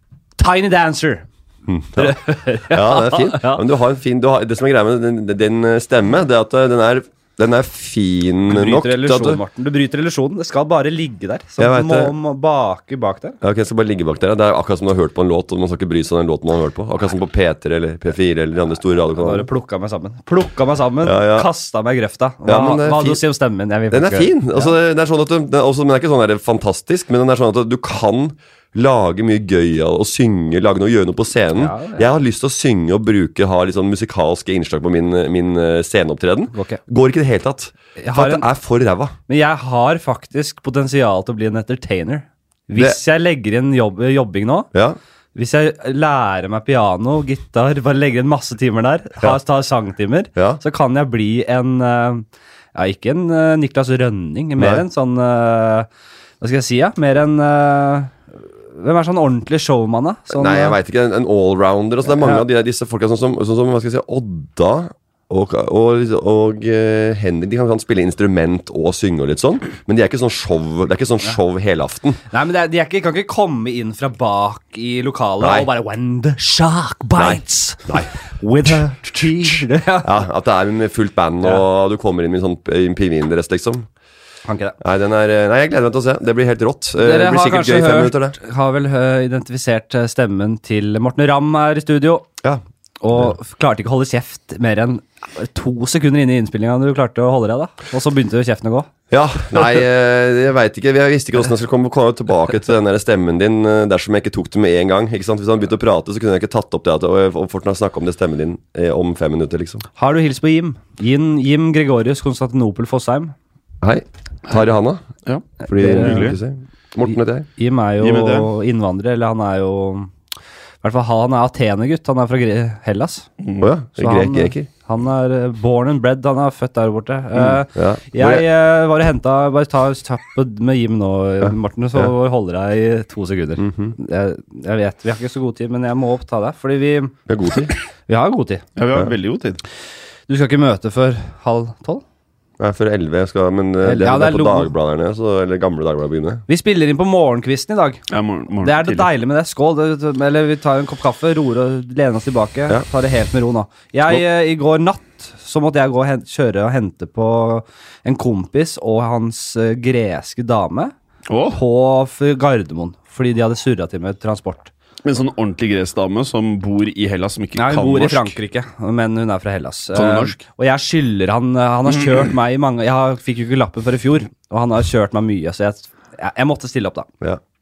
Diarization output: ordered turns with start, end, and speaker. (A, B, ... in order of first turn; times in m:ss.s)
0:00.4-0:01.2 A
0:01.7-0:09.4 B
0:02.0-0:03.6 A
0:08.5-0:13.4 A
0:11.6-0:12.1 B
0:13.4-0:19.5 B
0:19.1-0:24.7 A
0:21.0-0:21.5 B
0:22.4-0:23.2 B
0:23.9-0:39.1 B
0:31.5-0:32.1 A
0:36.5-0:36.8 A
0:38.0-0:38.5 A
0:39.3-0:44.7 A
0:45.3-0:55.9 A
0:50.4-0:50.6 B
0:54.6-0:54.8 B
0:56.4-0:58.2 A
0:58.7-1:00.8 A
1:00.3-1:12.2 B
1:02.1-1:02.4 A
1:12.3-1:20.2 A
1:15.4-1:15.7 B
1:17.2-1:18.1 B
1:20.0-1:23.9 B
1:24.4-1:24.8 A
1:24.8-1:28.4 B
1:27.0-1:32.3 A
1:33.0-1:38.9 A
1:39.1-1:49.8 B
1:50.0-1:53.3 A
1:53.8-1:55.0 B
1:55.2-1:56.4 C
1:55.6-1:56.4 A
1:55.7-1:57.5 B
1:57.6-2:00.1 A
1:58.0-1:58.5 C
2:00.8-2:03.3 A
2:03.4-2:03.7 C
2:03.6-2:04.7 B
2:04.0-2:17.1 A
2:07.3-2:08.5 B
2:11.4-2:12.1 B
2:13.6-2:14.0 B
2:17.3-2:17.7 B
2:18.1-2:18.6 A
2:18.8-2:19.6 C
2:20.3-2:22.0 A
2:22.6-2:26.4 B
2:23.8-2:24.7 A
2:26.5-2:28.0 A
2:28.1-2:29.1 C
2:28.6-2:40.9 A
2:41.3-2:41.6 C
2:41.5-2:44.7 A
2:45.0-2:48.3 C
2:47.6-2:57.1 A
2:49.9-2:50.4 C